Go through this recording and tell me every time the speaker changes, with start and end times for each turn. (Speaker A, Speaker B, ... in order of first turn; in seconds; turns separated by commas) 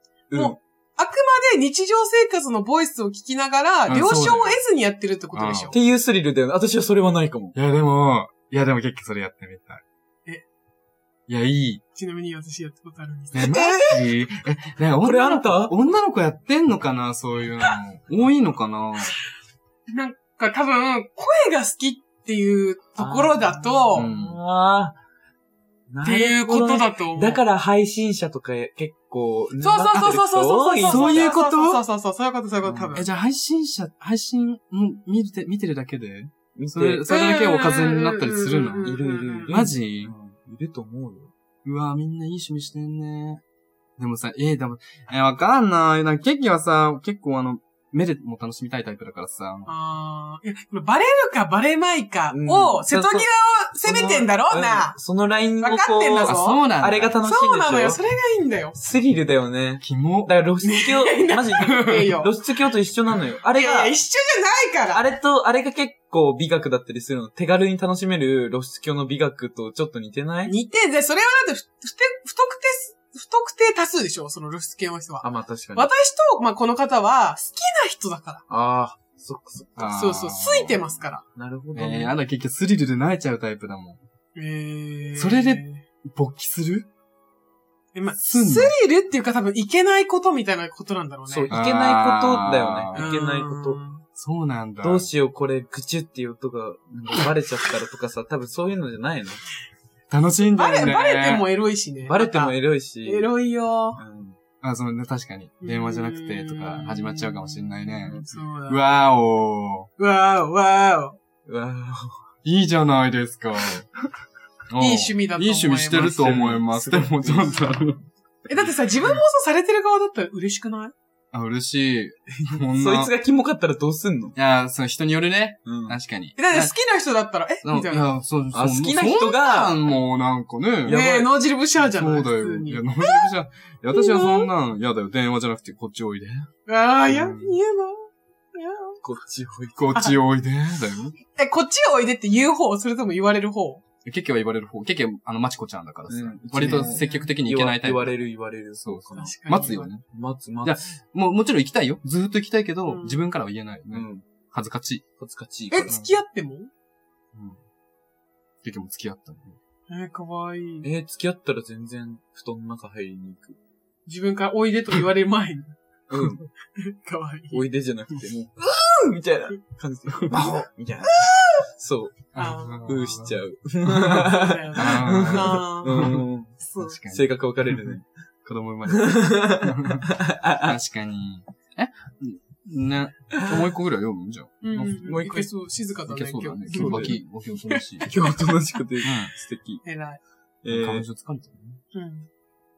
Speaker A: 0.3-0.6, Speaker B: 0.3-5.8, Speaker C: 3.9-4.6, Speaker C: 5.3-5.7, Speaker A: 5.7-7.5, Speaker C: 7.5-9.8, Speaker C: 11.3-11.8, Speaker B: 11.9-13.9, Speaker C: 13.3-19.2, Speaker A: 13.4-14.0, Speaker A: 15.0-15.8, Speaker B: 19.9-24.1, Speaker A: 23.0-25.0, Speaker C: 23.9-24.4, Speaker A: 25.9-31.4, Speaker B: 26.0-27.4, Speaker B: 29.6-33.1, Speaker C: 30.9-31.8, Speaker A: 32.6-32.9, Speaker C: 32.9-39.0, Speaker A: 36.6-37.0, Speaker B: 37.1-39.5, Speaker A: 38.8-41.3, Speaker C: 39.5-40.1, Speaker C: 41.6-43.4, Speaker C: 44.0-49.7, Speaker B: 49.7-55.0, Speaker A: 52.3-53.3, Speaker A: 53.8-58.0, Speaker B: 55.6-56.6, Speaker C: 56.2-57.1, Speaker B: 57.2-58.8, Speaker A: 58.8-64.0, Speaker C: 59.8-60.3, Speaker B: 60.6-62.3, Speaker B: 63.5-65.0, Speaker A: 64.9-70.5, Speaker B: 70.5-78.4, Speaker A: 75.2-75.9, Speaker A: 78.5-79.9, Speaker C: 79.8-80.8, Speaker B: 79.9-81.2, Speaker A: 81.3-82.2, Speaker C: 81.7-84.0, Speaker B: 84.3-85.8, Speaker C: 85.2-86.9, Speaker B: 87.9-91.6, Speaker C: 88.2-88.7, Speaker A: 91.3-93.8, Speaker C: 91.5-93.1, Speaker B: 92.9-94.0, Speaker C: 94.2-95.1, Speaker A: 94.8-99.4, Speaker C: 100.1-101.5, Speaker B: 100.5-104.0, Speaker A: 102.1-103.3, Speaker A: 104.0-104.4, Speaker C: 104.6-109.9, Speaker B: 105.6-109.0, Speaker B: 110.0-111.2, Speaker A: 111.5-112.2, Speaker C: 112.4-113.9, Speaker C: 114.7-118.0, Speaker B: 114.8-116.6, Speaker A: 116.2-117.6, Speaker B: 118.5-120.9, Speaker C: 121.3-123.1, Speaker A: 122.8-124.4, Speaker C: 124.3-126.8, Speaker A: 125.7-126.0, Speaker B: 126.4-128.1, Speaker C: 127.6-131.0, Speaker A: 128.5-129.8, Speaker A: 130.8-131.3, Speaker B: 130.9-133.3, Speaker C: 131.8-136.5, Speaker B: 133.9-134.5, Speaker B: 136.7-139.0, Speaker C: 137.1-137.5, Speaker A: 139.0-139.9, Speaker C: 139.8-141.2, Speaker B: 141.2-143.8, Speaker C: 144.0-148.2, Speaker A: 146.1-150.8, Speaker B: 146.6-147.3, Speaker C: 148.8-150.0, Speaker B: 149.1-149.9, Speaker C: 150.6-155.1, Speaker B: 152.9-153.2, Speaker A: 153.9-154.3, Speaker A: 155.2-155.9, Speaker B: 155.7-156.7, Speaker C: 157.3-157.6, Speaker C: 158.6-159.6, Speaker B: 159.9-160.9, Speaker A: 160.8-163.6, Speaker B: 164.1-165.7, Speaker A: 166.1-166.4, Speaker B: 166.7-167.6, Speaker A: 167.5-172.3, Speaker B: 171.1-171.7, Speaker C: 172.3-176.3, Speaker B: 172.4-172.9, Speaker A: 172.8-178.1, Speaker B: 174.1-175.9, Speaker B: 176.6-177.0, Speaker C: 176.8-177.9, Speaker C: 178.4-185.2, Speaker A: 178.9-180.8, Speaker B: 184.6-188.3, Speaker A: 185.0-185.5, Speaker C: 186.1-188.2, Speaker A: 186.7-187.2, Speaker A: 188.1-189.9, Speaker C: 189.0-189.3, Speaker B: 189.8-190.2, Speaker A: 190.6-191.1, Speaker C: 190.7-191.8, Speaker B: 191.9-192.3